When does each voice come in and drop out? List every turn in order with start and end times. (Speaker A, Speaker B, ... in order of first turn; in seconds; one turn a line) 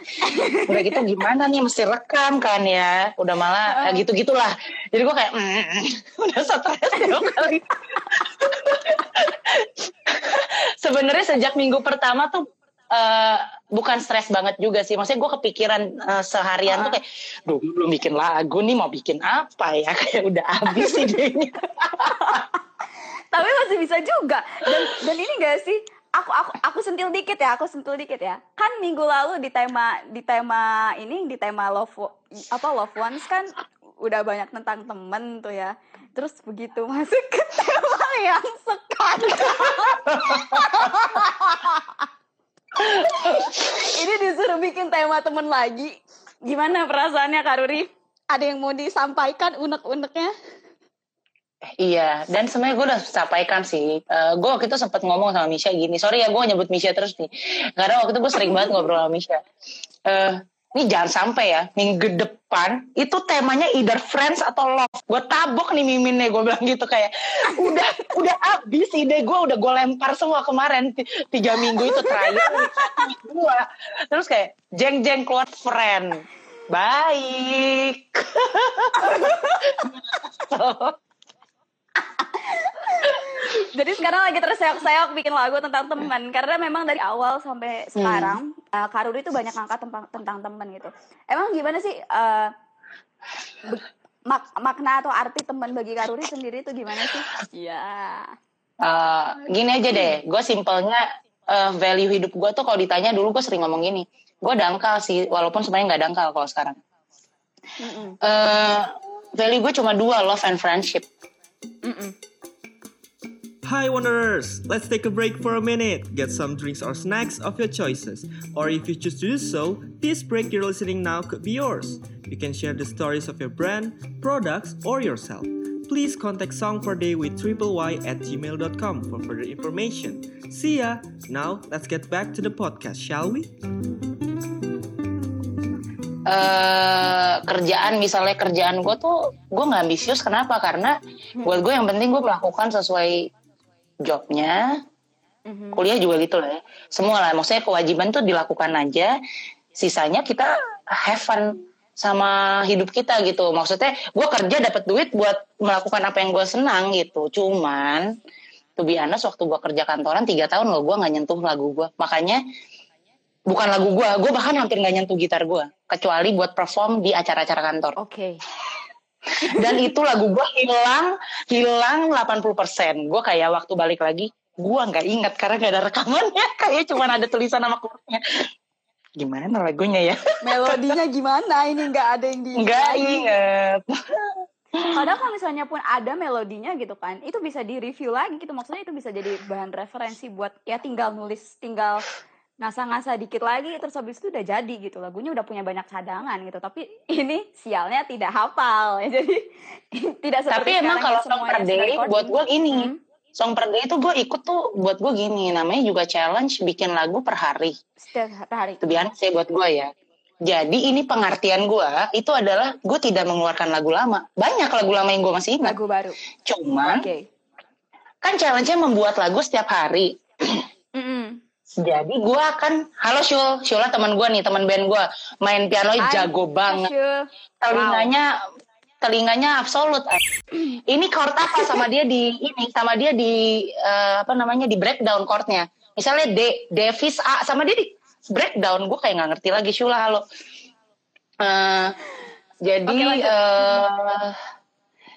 Speaker A: 0.2-1.0
Speaker B: 0.6-22.4
Speaker A: 3.7-4.0
Speaker A: 7.0-7.3
Speaker A: 16.7-17.0
Speaker A: 20.8-21.0
Speaker A: 22.0-22.4
Speaker A: 23.3-42.1
Speaker B: 40.1-40.8
Speaker A: 42.8-50.3
Speaker B: 43.0-43.5
Speaker B: 51.7-59.4
Speaker A: 58.4-58.7
Speaker B: 60.1-81.0
Speaker A: 71.7-73.0
Speaker A: 79.0-79.7
Speaker A: 82.2-92.5
Speaker B: 88.0-88.4
Speaker A: 93.7-98.3
Speaker B: 98.8-106.8
Speaker A: 107.8-108.2
Speaker B: 108.2-111.1
Speaker A: 111.8-112.2
Speaker C: 113.6-133.5
Speaker B: 136.3-143.3
Speaker B: 144.0-144.8
Speaker A: 145.5-145.8
Speaker B: 145.8-149.2
Speaker B: 149.8-158.1
Speaker B: 158.8-162.4
Speaker B: 163.5-168.0
Speaker A: 168.0-168.4
Speaker B: 169.4-178.2
Speaker A: 169.4-169.8
Speaker B: 179.2-181.0
Speaker A: 180.4-183.3
Speaker B: 182.6-185.1
Speaker A: 184.9-192.1
Speaker A: 192.6-203.0
Speaker B: 200.5-207.8
Speaker A: 208.0-208.8
Speaker B: 208.8-209.9
Speaker B: 210.4-215.8
Speaker A: 215.6-216.2
Speaker B: 216.5-217.1
Speaker A: 216.8-217.3
Speaker B: 218.2-220.6
Speaker A: 220.9-221.4
Speaker B: 221.8-226.9
Speaker A: 226.0-228.1
Speaker B: 227.6-228.3
Speaker B: 229.0-230.2
Speaker B: 230.9-240.2
Speaker B: 241.4-242.0
Speaker B: 242.6-244.4
Speaker A: 242.9-243.8